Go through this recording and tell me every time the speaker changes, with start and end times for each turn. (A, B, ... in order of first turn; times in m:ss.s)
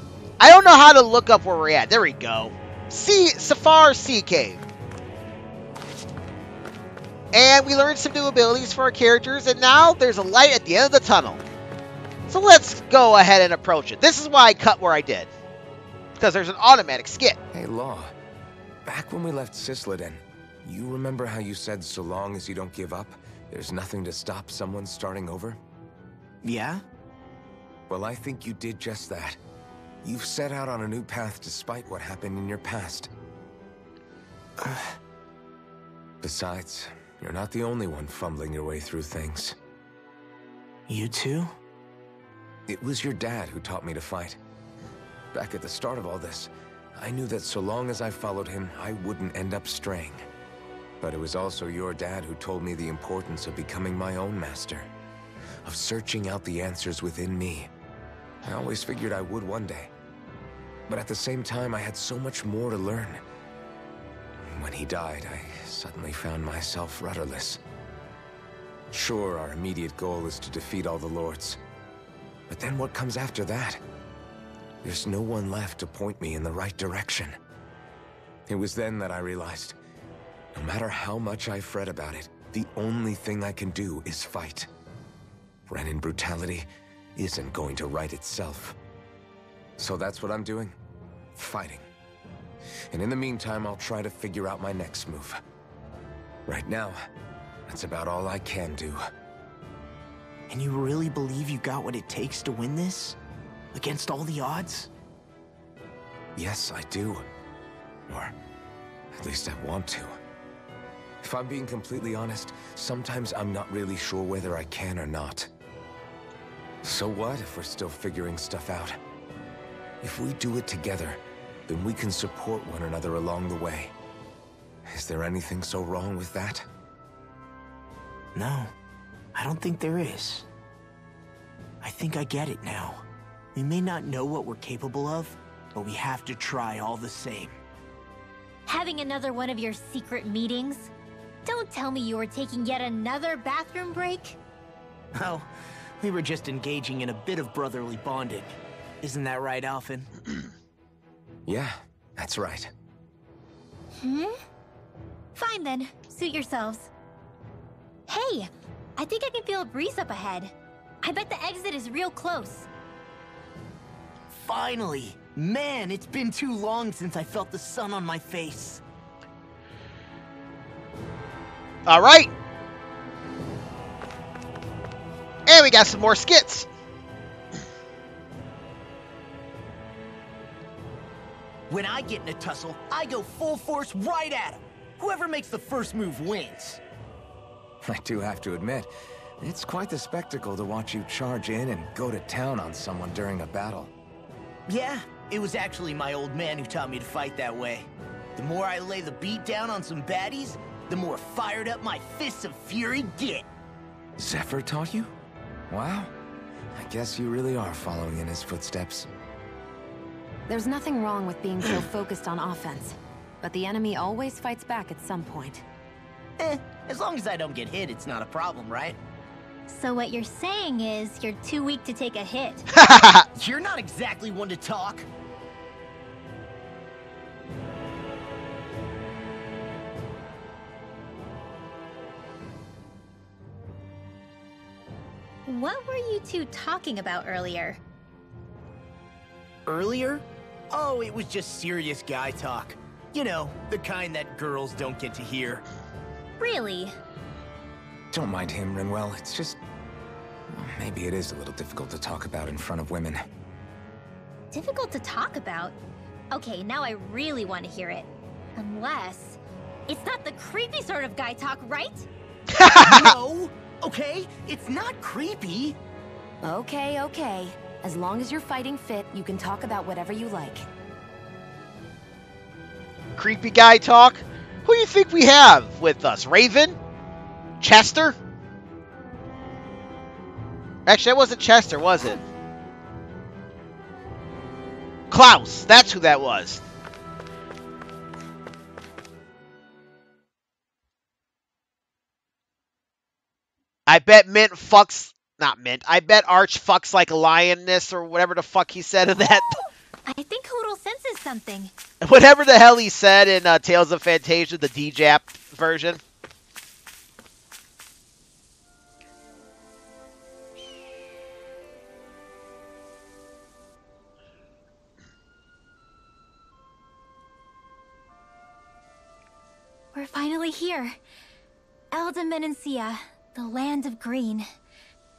0:00.4-0:04.6 A
0:07.3-0:11.4 A
0:12.3-0:15.3 A
0:16.2-0:17.4 A
0:17.5-0:18.1 B
0:18.8-0:25.6 B
0:26.4-0:26.8 C
0:27.9-0:29.4 B
0:30.0-0:33.1 B
0:34.6-0:35.0 C
0:36.2-0:39.6 B
0:40.9-0:41.5 C
0:42.7-0:44.4 B
0:45.3-0:50.2 B
0:51.0-0:54.9 B
0:55.6-0:57.7 B
0:58.4-0:59.9 B
1:00.9-1:03.2 B
1:04.4-1:07.6 B
1:08.9-1:11.6 B
1:12.5-1:13.8 B
1:14.8-1:17.4 B
1:18.5-1:19.8 B
1:20.5-1:24.7 B
1:25.7-1:28.8 B
1:29.8-1:30.8 B
1:31.4-1:31.9 B
1:32.9-1:35.4 B
1:36.4-1:37.0 B
1:37.7-1:39.0 B
1:40.5-1:43.2 C
1:43.7-1:44.9 C
1:46.4-1:47.3 B
1:48.1-1:48.3 B
1:49.1-1:50.2 B
1:51.2-1:55.5 B
1:56.8-1:59.0 B
2:00.0-2:03.9 B
2:04.9-2:06.7 B
2:08.3-2:08.7 C
2:09.3-2:10.4 C
2:11.8-2:17.6 C
2:18.7-2:20.9 D
2:21.4-2:24.4 D
2:25.1-2:25.5 C
2:26.0-2:28.5 C
2:29.0-2:30.1 C
2:31.5-2:32.7 B
2:34.0-2:34.4 D
2:35.3-2:36.9 D
2:38.1-2:42.7 D
2:44.3-2:48.8 C
2:51.8-2:52.3 A
2:55.5-2:56.7 A
3:01.7-3:06.8 C
3:07.8-3:08.9 B
3:09.4-3:13.9 B
3:14.7-3:23.5 C
3:24.2-3:25.1 B
3:25.7-3:26.1 B
3:26.7-3:29.1 B
3:30.5-3:35.6 E
3:36.4-3:39.0 C
3:39.7-3:42.7 D
3:42.7-3:43.2 A
3:43.4-3:45.1 C
3:55.4-3:57.8 D
3:59.7-4:05.6 C
4:06.4-4:07.0 D
4:08.1-4:09.6 B
4:10.5-4:13.2 B
4:14.5-4:15.7 D
4:16.3-4:22.1 D
4:22.5-4:23.2 A
4:22.8-4:25.8 C
4:26.4-4:30.7 E
4:33.2-4:36.8 A
4:37.6-4:38.2 A
4:40.9-4:42.2 A
4:45.1-4:46.6 A
4:53.9-4:59.6 A
5:00.1-5:01.7 D
5:02.0-5:06.0 A
5:19.9-5:21.0 D
5:21.9-5:24.5 D